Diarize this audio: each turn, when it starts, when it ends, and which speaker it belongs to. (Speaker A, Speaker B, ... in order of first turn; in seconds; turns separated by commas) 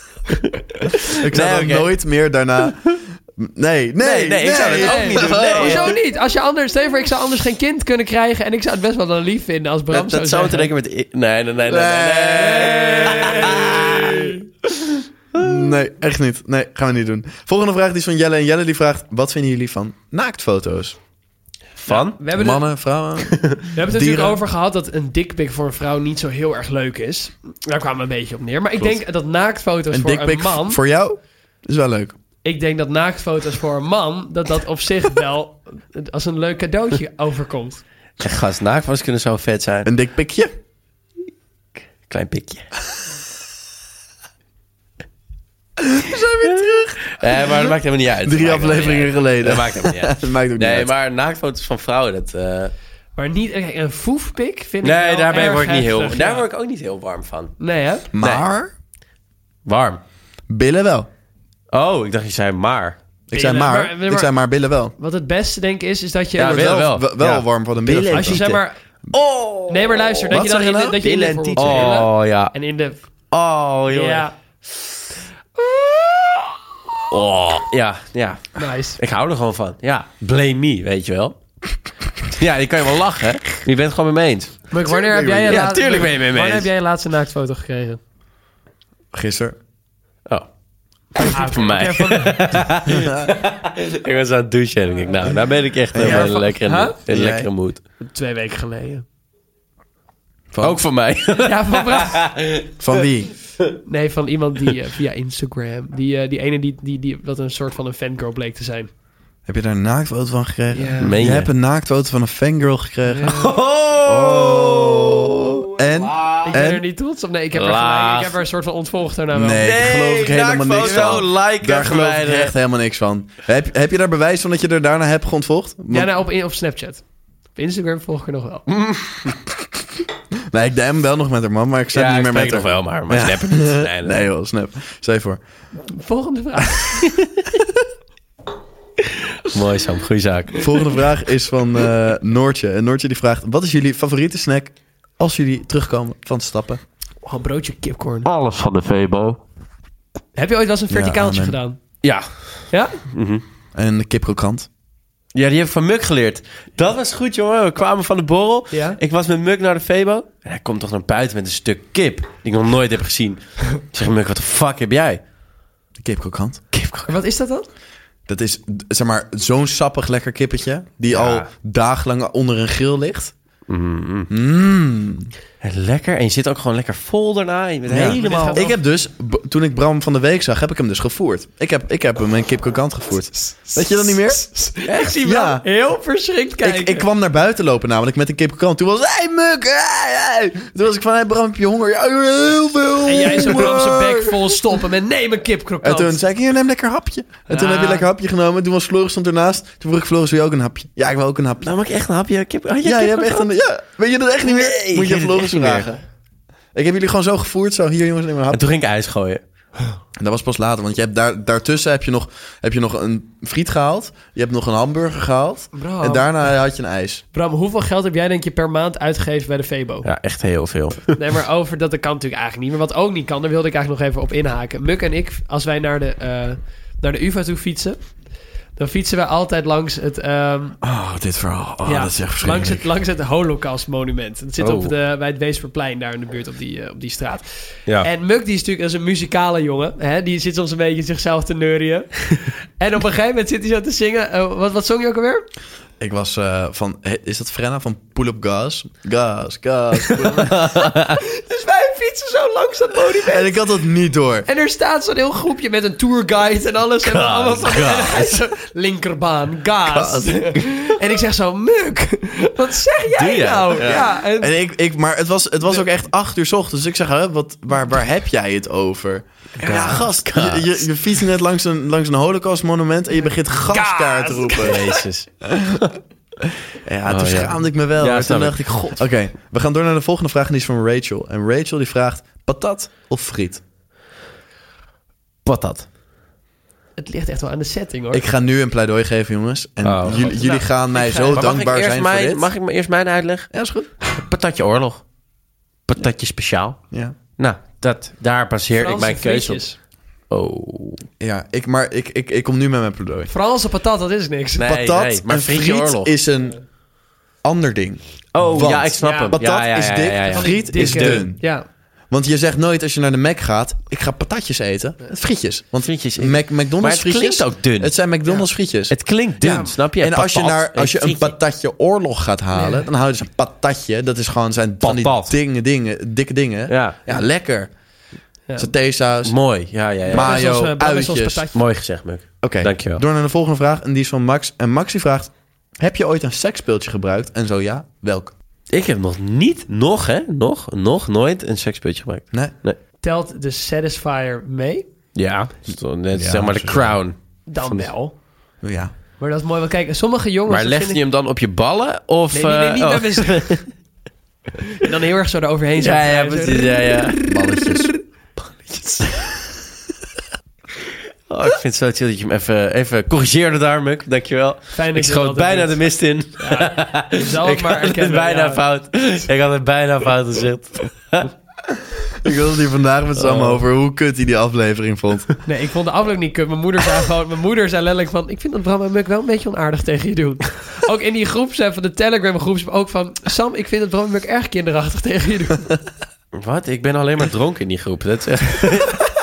Speaker A: 0.3-1.9, Speaker B: 1.2-6.0, Speaker A: 4.0-5.9, Speaker C: 4.5-10.7, Speaker A: 9.9-15.7, Speaker B: 11.7-14.3, Speaker C: 12.5-14.3, Speaker B: 15.3-20.9, Speaker A: 21.8-22.2, Speaker C: 21.9-22.6, Speaker B: 22.3-24.4, Speaker A: 23.3-23.7, Speaker C: 23.7-30.8, Speaker B: 29.9-32.1, Speaker C: 32.4-37.8, Speaker A: 38.2-39.9, Speaker B: 39.9-40.5, Speaker A: 42.0-42.6, Speaker B: 45.8-50.9, Speaker A: 46.5-52.7, Speaker C: 53.2-56.4, Speaker A: 54.8-57.5, Speaker C: 57.6-58.1, Speaker B: 58.1-58.7, Speaker A: 58.2-58.5, Speaker A: 59.6-60.0, Speaker B: 60.5-61.1, Speaker A: 61.7-63.0, Speaker B: 63.3-64.9, Speaker C: 63.3-64.3, Speaker C: 65.0-66.8, Speaker A: 66.4-70.3, Speaker B: 66.4-68.4, Speaker C: 68.1-68.8, Speaker C: 69.7-73.0, Speaker B: 70.3-72.0, Speaker A: 71.0-72.5, Speaker A: 73.3-74.3, Speaker C: 73.9-74.3, Speaker C: 75.6-76.6, Speaker A: 77.1-81.4, Speaker C: 78.5-79.0, Speaker A: 82.3-84.5, Speaker C: 84.7-88.0, Speaker B: 84.8-85.7, Speaker A: 85.5-86.7, Speaker B: 89.1-89.6, Speaker A: 91.1-97.8, Speaker C: 91.2-92.7, Speaker B: 92.8-93.3, Speaker B: 95.9-96.5, Speaker C: 96.0-97.0, Speaker B: 97.0-97.5, Speaker C: 98.0-99.0, Speaker B: 100.5-100.8, Speaker A: 100.6-102.8, Speaker C: 101.4-102.3, Speaker B: 102.8-103.3, Speaker C: 103.8-108.9, Speaker B: 109.5-116.8, Speaker C: 110.7-111.2, Speaker A: 111.0-111.5, Speaker C: 113.1-113.5, Speaker A: 113.2-116.5, Speaker C: 116.4-119.8, Speaker A: 117.5-118.4, Speaker B: 119.3-126.1, Speaker A: 119.6-122.5, Speaker C: 120.8-121.2, Speaker C: 125.9-127.0, Speaker C: 127.5-128.7, Speaker A: 128.7-129.3, Speaker B: 130.5-135.4, Speaker A: 131.9-134.2, Speaker C: 135.8-137.2, Speaker A: 139.4-140.7, Speaker B: 140.6-146.8, Speaker C: 147.2-148.3, Speaker A: 148.2-149.4, Speaker C: 150.3-151.8, Speaker B: 150.9-151.6, Speaker A: 152.0-152.4, Speaker C: 152.7-153.0, Speaker A: 153.1-153.4, Speaker B: 153.7-154.7, Speaker A: 155.3-165.2, Speaker C: 158.7-159.0, Speaker B: 166.0-166.6, Speaker A: 166.7-167.1, Speaker C: 167.1-167.7, Speaker B: 168.3-173.3, Speaker A: 171.1-171.5, Speaker A: 173.7-174.3, Speaker B: 174.3-175.3, Speaker A: 175.6-178.7, Speaker B: 177.9-184.5, Speaker C: 177.9-178.7, Speaker C: 183.5-187.1, Speaker A: 184.8-185.1, Speaker B: 185.2-185.7, Speaker B: 186.6-194.6, Speaker C: 193.1-196.2, Speaker B: 195.8-201.7, Speaker C: 197.5-198.1, Speaker A: 201.6-203.5, Speaker B: 202.8-205.9, Speaker A: 204.4-206.0, Speaker B: 206.7-208.6, Speaker A: 208.5-209.4, Speaker B: 210.2-217.2, Speaker C: 215.7-216.3, Speaker C: 217.3-220.1, Speaker A: 220.0-221.2, Speaker C: 221.1-228.0, Speaker C: 228.8-230.8, Speaker B: 230.8-232.8, Speaker C: 231.8-245.4, Speaker A: 234.6-234.9, Speaker B: 246.0-250.6, Speaker A: 250.2-251.2, Speaker C: 251.1-253.6, Speaker B: 253.2-254.5, Speaker C: 254.4-264.5, Speaker A: 257.0-258.4, Speaker B: 259.9-260.7, Speaker A: 263.1-264.0, Speaker B: 263.8-274.9, Speaker A: 269.6-270.9, Speaker C: 273.7-275.0, Speaker A: 274.6-275.9, Speaker B: 275.4-275.9, Speaker B: 276.8-283.6, Speaker A: 277.1-279.0, Speaker A: 285.4-285.9, Speaker C: 287.0-288.2, Speaker B: 288.1-292.5, Speaker A: 289.8-290.3, Speaker C: 290.1-291.5, Speaker A: 291.3-293.5, Speaker B: 293.5-293.9, Speaker A: 294.1-295.0, Speaker A: 295.9-296.8, Speaker A: 297.4-299.6, Speaker C: 298.7-299.8, Speaker A: 300.3-301.0, Speaker B: 301.2-303.3, Speaker C: 303.3-304.7, Speaker A: 304.6-306.1, Speaker B: 304.6-306.6, Speaker B: 307.4-311.4, Speaker A: 308.3-311.2, Speaker C: 309.0-309.4, Speaker C: 310.3-311.6, Speaker B: 312.1-318.9, Speaker A: 315.8-317.9, Speaker A: 318.9-321.4, Speaker C: 319.4-319.7, Speaker B: 319.5-327.7, Speaker C: 322.5-322.9, Speaker A: 324.8-325.3, Speaker A: 326.7-327.0, Speaker B: 328.6-329.4, Speaker A: 329.2-330.4, Speaker B: 330.1-331.4, Speaker C: 330.1-331.6, Speaker A: 331.5-333.0, Speaker B: 332.4-338.3, Speaker A: 338.7-342.8, Speaker C: 343.0-344.8, Speaker A: 345.1-347.9, Speaker B: 346.1-347.0, Speaker C: 347.5-348.1, Speaker B: 348.6-348.9, Speaker C: 349.2-351.0, Speaker A: 350.5-353.7, Speaker C: 352.3-353.6, Speaker C: 354.7-357.9, Speaker A: 355.8-357.6, Speaker B: 357.3-357.9, Speaker A: 358.5-359.2, Speaker A: 361.3-371.3, Speaker C: 364.7-365.8, Speaker C: 366.4-368.6, Speaker B: 371.7-375.3, Speaker A: 373.1-373.6, Speaker C: 375.4-385.7, Speaker A: 386.3-389.0